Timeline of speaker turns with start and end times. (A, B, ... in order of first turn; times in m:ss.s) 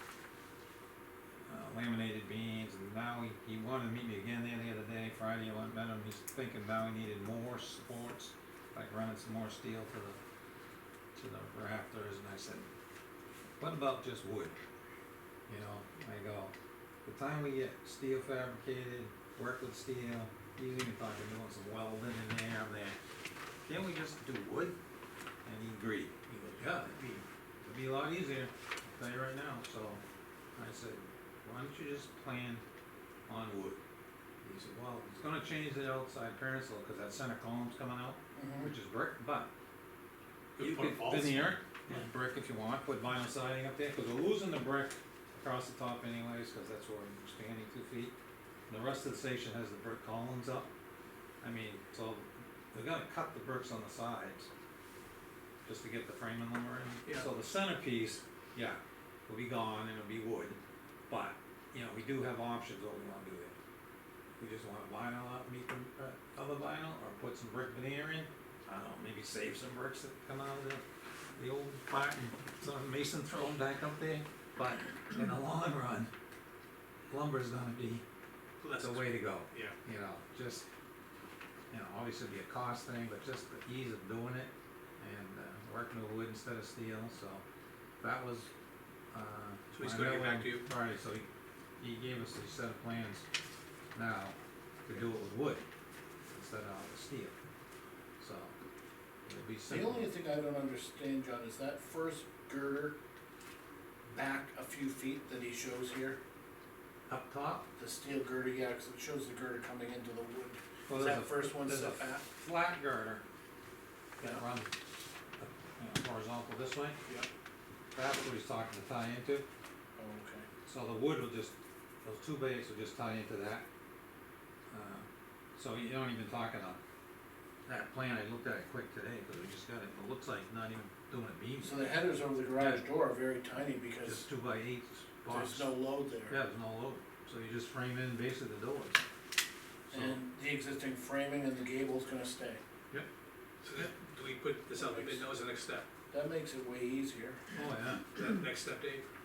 0:01.5-0:10.2 A
0:11.2-0:12.7 A
0:13.6-0:14.5 A
0:15.5-0:16.5 A
0:17.1-0:23.0 A
0:23.7-0:24.8 A
0:25.4-0:27.0 A
0:26.3-0:27.2 B
0:27.6-0:30.0 A
0:30.6-0:32.6 A
0:33.3-0:33.8 A
0:34.4-0:39.5 A
0:38.4-0:38.7 C
0:40.6-0:41.6 B
0:40.6-0:48.1 A
0:48.7-0:50.7 A
0:51.4-0:54.5 A
0:55.6-1:03.6 A
0:57.1-0:57.3 B
1:04.4-1:10.8 A
1:11.4-1:16.1 A
1:17.1-1:18.0 A
1:18.6-1:19.8 B
1:18.8-1:20.7 A
1:21.7-1:27.4 A
1:28.0-1:28.5 A
1:29.1-1:31.3 A
1:29.7-1:30.7 B
1:31.8-1:33.2 A
1:33.9-1:35.6 A
1:36.3-1:37.3 A
1:38.2-1:38.5 A
1:39.3-1:40.1 A
1:39.7-1:43.0 C
1:44.1-1:46.2 C
1:47.1-1:47.7 A
1:47.8-1:52.2 C
1:50.9-1:53.2 A
1:54.2-1:54.7 A
1:55.4-1:57.0 A
1:57.9-1:59.5 A
2:00.0-2:00.5 C
2:00.7-2:03.6 A
2:04.7-2:05.1 A
2:05.6-2:06.8 A
2:07.7-2:11.9 A
2:11.6-2:14.3 C
2:12.6-2:12.8 A
2:14.0-2:15.8 A
2:15.3-2:16.4 C
2:16.3-2:19.0 A
2:19.9-2:22.6 C
2:23.6-2:25.9 B
2:24.7-2:25.3 C
2:26.1-2:27.4 C
2:27.5-2:28.0 A
2:28.1-2:29.0 B